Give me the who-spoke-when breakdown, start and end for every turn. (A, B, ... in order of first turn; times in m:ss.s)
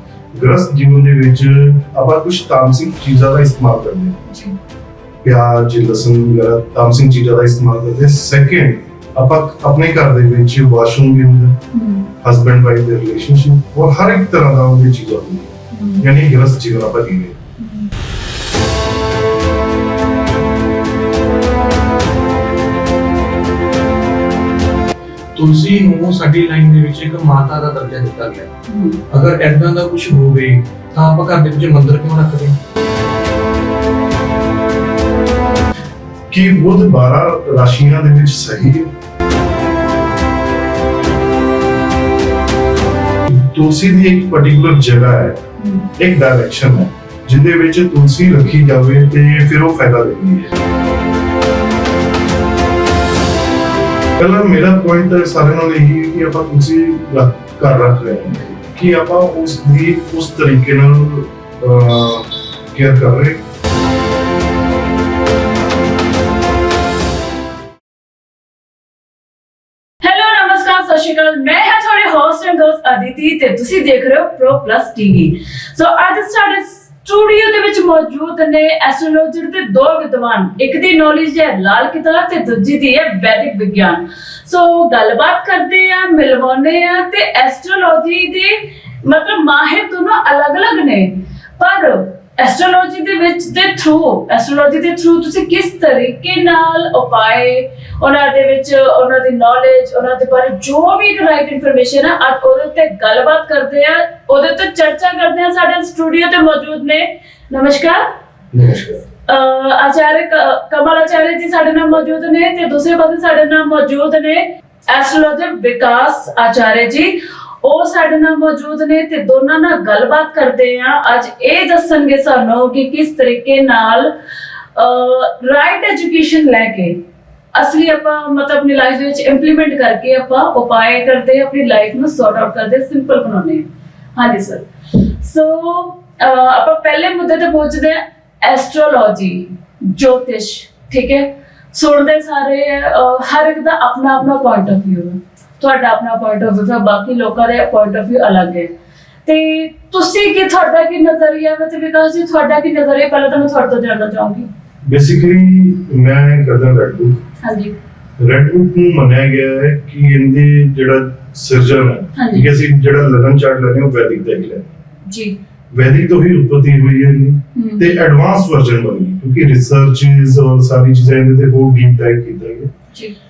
0:00.3-0:04.2 A
0:04.3-0:04.5 B
0:05.2-0:11.6 A
0:11.7-0:12.1 B
0:12.2-0:17.4 A
0:15.7-0:16.0 B
0:17.6-0:17.9 B
0:25.3-0:28.5 C
0:28.7-0:29.0 B
0:29.1-0:32.6 C
0:36.3-0:38.9 A
0:43.3-0:45.4 A
0:45.6-0:45.9 B
0:46.0-0:50.5 A
0:54.2-1:03.4 A
1:10.0-1:48.0 B
1:48.5-1:49.0 A
1:49.2-2:04.1 B
2:04.8-2:07.0 B
2:07.5-2:14.7 B
2:15.2-2:28.7 B
2:29.2-2:34.5 B
2:34.8-2:37.2 A
2:37.4-2:37.7 B
2:38.2-2:44.7 A
2:42.1-2:42.5 B
2:45.1-2:45.4 B
2:45.7-2:52.7 A
2:47.5-2:47.9 B